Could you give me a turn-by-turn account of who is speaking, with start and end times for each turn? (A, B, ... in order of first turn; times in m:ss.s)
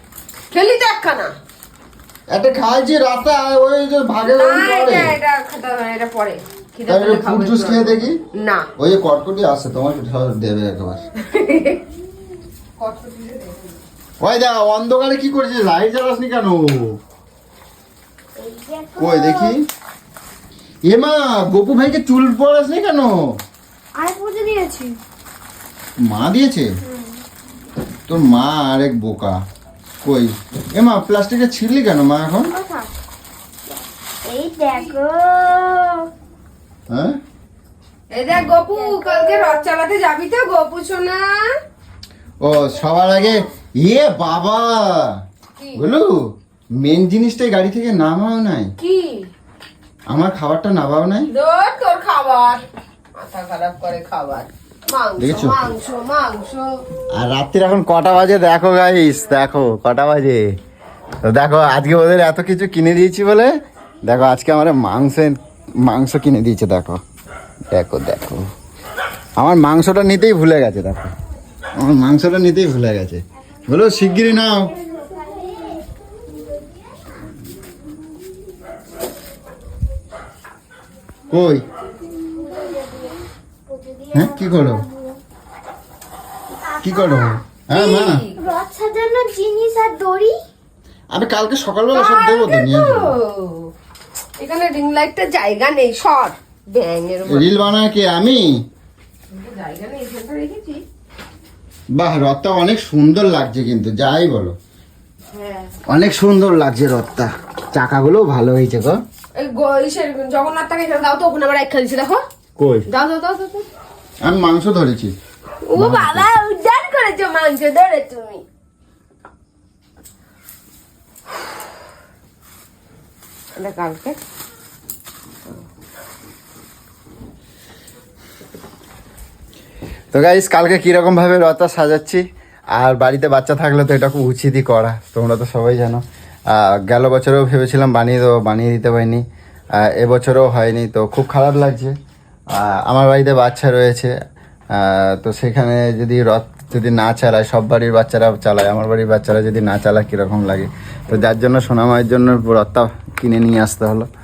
0:00.5-0:01.3 A
0:02.3-0:05.2 B
0:04.2-0:08.7 A
0:06.9-0:08.2 B
0:08.8-0:11.0 B
0:11.2-0:11.8 A
0:12.8-0:13.8 A
0:14.2-0:16.8 B
0:18.4-0:19.6 C
0:19.0-0:19.6 B
0:20.9-0:23.2 B
0:24.0-0:25.0 C
0:26.1-0:26.7 B
0:26.8-0:27.2 C
0:28.1-0:29.4 B
0:30.0-0:32.5 B
0:32.5-0:32.9 C
0:34.2-0:36.1 C
0:36.9-0:37.2 B
0:38.1-0:41.3 A
0:38.8-0:39.6 C
0:42.4-0:45.1 B
0:45.6-0:45.9 A
0:45.8-0:46.2 B
0:46.8-0:48.7 B
0:48.8-0:49.3 A
0:50.1-0:51.3 B
0:51.3-0:52.6 A
0:53.2-0:56.7 A
0:55.2-0:55.6 B
0:57.2-1:00.4 B
1:01.2-1:03.5 B
1:04.0-1:07.0 B
1:07.7-1:08.5 B
1:09.4-1:11.1 B
1:11.8-1:14.7 B
1:14.5-1:16.8 C
1:21.3-1:21.6 B
1:22.0-1:25.2 C
1:24.1-1:24.8 B
1:26.5-1:27.8 C
1:26.8-1:28.2 B
1:27.7-1:28.4 A
1:28.4-1:30.4 C
1:31.1-1:33.1 B
1:31.9-1:33.7 A
1:34.4-1:37.5 A
1:37.2-1:38.5 B
1:39.3-1:40.8 A
1:41.9-1:44.6 B
1:45.3-1:45.7 A
1:45.9-1:49.0 B
1:49.4-1:52.2 A
1:52.6-1:52.8 B
1:52.9-1:53.7 A
1:54.2-1:55.2 B
1:55.7-1:58.4 A
1:55.8-1:56.3 B
2:03.6-2:04.2 A
2:10.1-2:12.2 B
2:12.8-2:16.0 B
2:16.6-2:19.2 B
2:19.9-2:21.9 B
2:22.6-2:24.1 B
2:24.8-2:34.1 B